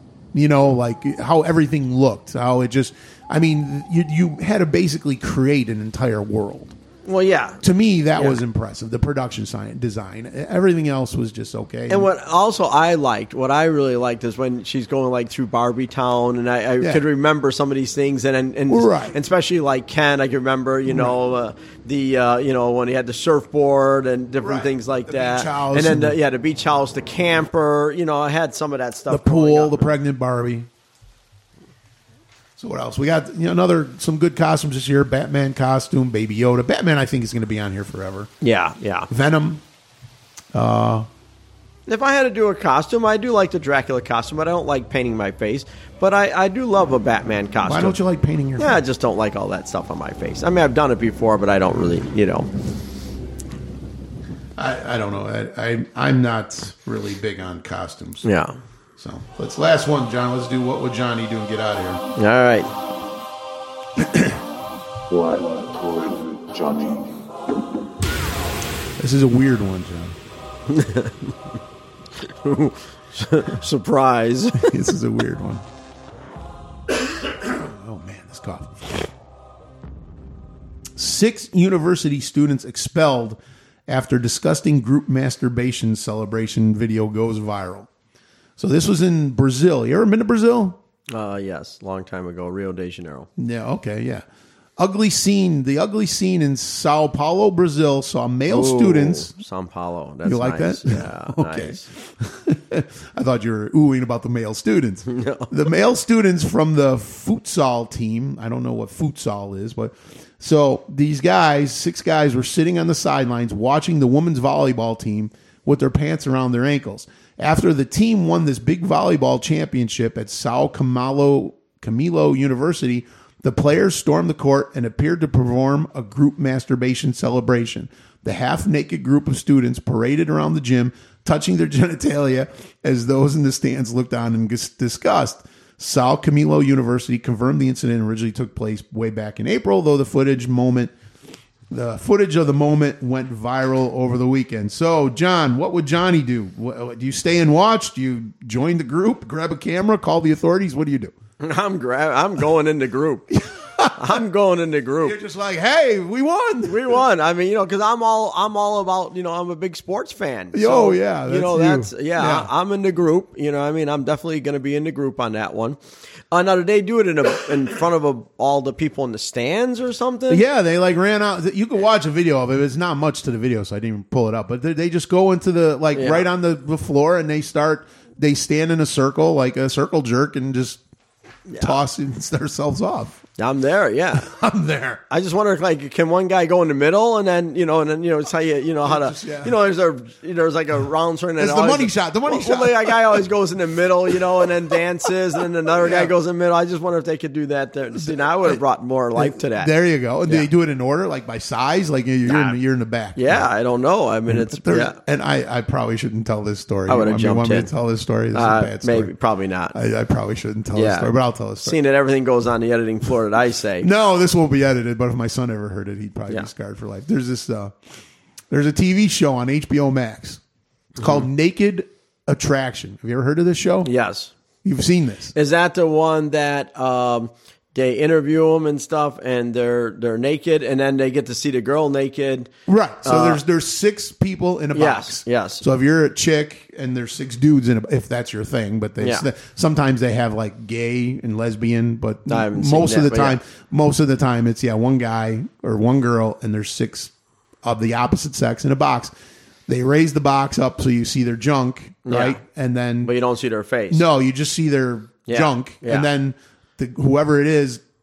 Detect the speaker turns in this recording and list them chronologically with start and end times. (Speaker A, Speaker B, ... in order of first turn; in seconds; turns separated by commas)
Speaker A: 0.3-6.8, Speaker B: 7.0-7.6, Speaker A: 7.6-12.1, Speaker B: 8.2-8.4, Speaker B: 11.9-29.9, Speaker A: 16.8-17.0, Speaker A: 18.7-19.1, Speaker A: 20.9-21.1, Speaker A: 24.4-26.2, Speaker A: 29.1-30.7, Speaker A: 32.6-38.3, Speaker B: 38.4-39.1, Speaker A: 39.1-39.6, Speaker A: 40.5-41.1, Speaker B: 41.9-48.0, Speaker A: 47.6-48.8, Speaker B: 48.6-52.5, Speaker A: 54.5-58.3, Speaker B: 58.2-58.5, Speaker A: 59.0-62.0, Speaker B: 62.2-62.7, Speaker A: 64.0-64.4, Speaker C: 65.1-67.3, Speaker A: 69.0-70.2, Speaker B: 70.7-71.3, Speaker B: 72.2-74.7, Speaker A: 74.6-75.6, Speaker A: 77.2-79.1, Speaker A: 81.0-87.9, Speaker A: 88.6-90.8, Speaker B: 91.1-93.3, Speaker A: 93.4-94.2, Speaker A: 94.8-99.3, Speaker B: 98.5-101.9, Speaker A: 100.2-140.9, Speaker B: 105.1-105.5, Speaker A: 141.7-151.1, Speaker B: 151.4-153.3, Speaker A: 153.3-154.2, Speaker B: 153.9-155.2, Speaker A: 155.0-157.0, Speaker B: 156.7-165.8, Speaker A: 160.5-162.5, Speaker B: 166.3-170.4, Speaker A: 170.3-180.8, Speaker B: 175.9-176.3, Speaker B: 181.5-181.8, Speaker A: 181.6-183.2, Speaker B: 183.4-184.3, Speaker A: 184.2-185.0, Speaker B: 185.1-199.7, Speaker A: 188.8-189.5, Speaker A: 191.4-193.2, Speaker A: 194.4-194.8, Speaker A: 195.7-196.1, Speaker A: 197.9-198.6, Speaker A: 199.2-203.5, Speaker B: 202.2-202.6, Speaker B: 203.2-205.0, Speaker A: 204.3-209.1, Speaker B: 206.9-207.7, Speaker B: 208.3-209.7, Speaker A: 209.7-211.8, Speaker B: 210.7-213.9, Speaker A: 213.8-217.7, Speaker A: 218.5-220.4, Speaker A: 221.0-223.9, Speaker B: 223.8-224.3, Speaker A: 224.6-225.3, Speaker B: 225.3-232.5, Speaker A: 232.7-247.1, Speaker B: 233.0-233.4, Speaker B: 234.7-235.6, Speaker B: 239.0-239.2, Speaker B: 242.3-243.4, Speaker A: 247.6-249.1, Speaker A: 249.7-253.1, Speaker B: 252.0-252.4, Speaker B: 253.0-254.0, Speaker A: 253.9-257.8, Speaker B: 255.3-256.1